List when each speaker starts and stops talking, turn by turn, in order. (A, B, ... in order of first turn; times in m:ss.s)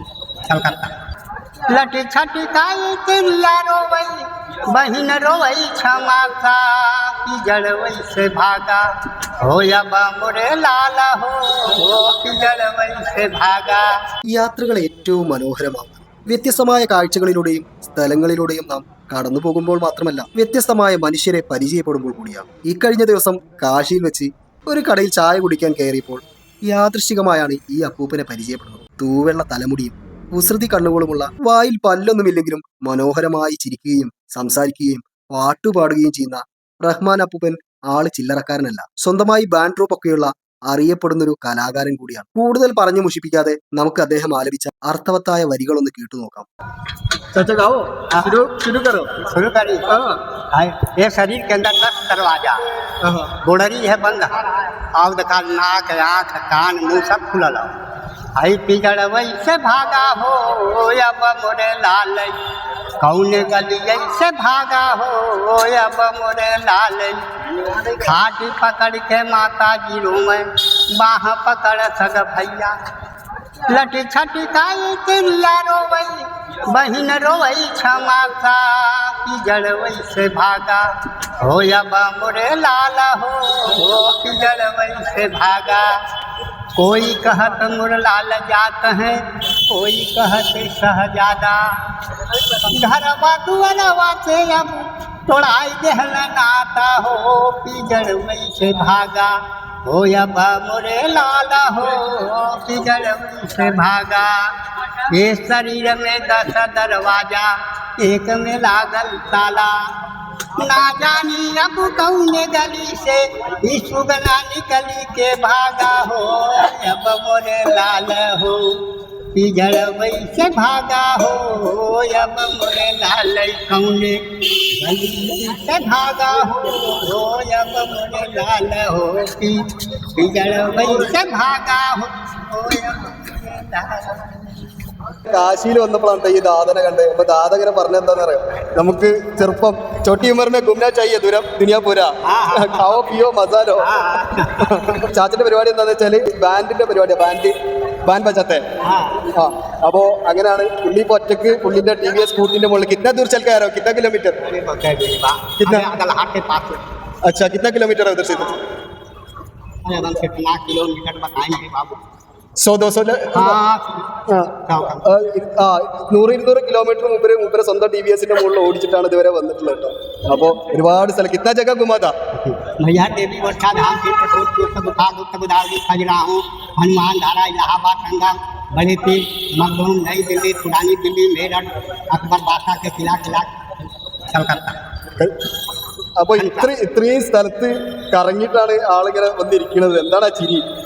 0:00.4-0:00.9 A
0:01.7-0:08.8 A
0:09.4-0:13.9 A
0:14.3-0:46.5 B
0:47.3-0:49.1 B
0:48.1-0:48.4 A
0:49.2-0:49.9 A
0:50.4-0:52.6 A
0:53.3-0:57.7 A
0:58.4-1:02.4 A
1:03.0-1:12.7 A
1:13.7-1:20.9 A
1:21.4-1:25.9 A
1:26.8-1:31.6 A
1:32.5-1:44.4 A
1:45.1-1:49.8 A
1:50.5-1:58.8 A
1:59.3-2:14.5 A
2:15.3-2:23.9 C
2:22.2-2:23.0 A
2:23.8-2:24.9 A
2:24.6-2:27.5 C
2:28.0-2:28.6 C
2:28.8-2:29.3 A
2:29.3-2:34.4 C
2:34.4-2:36.8 A
2:35.6-2:35.9 C
2:37.3-2:38.6 C
2:39.8-2:42.0 A
2:42.6-2:43.6 C
2:43.3-2:45.1 A
2:44.3-2:52.1 C
2:52.3-3:03.5 A
3:04.3-3:04.8 A
3:06.2-3:10.6 C
3:06.4-3:06.7 A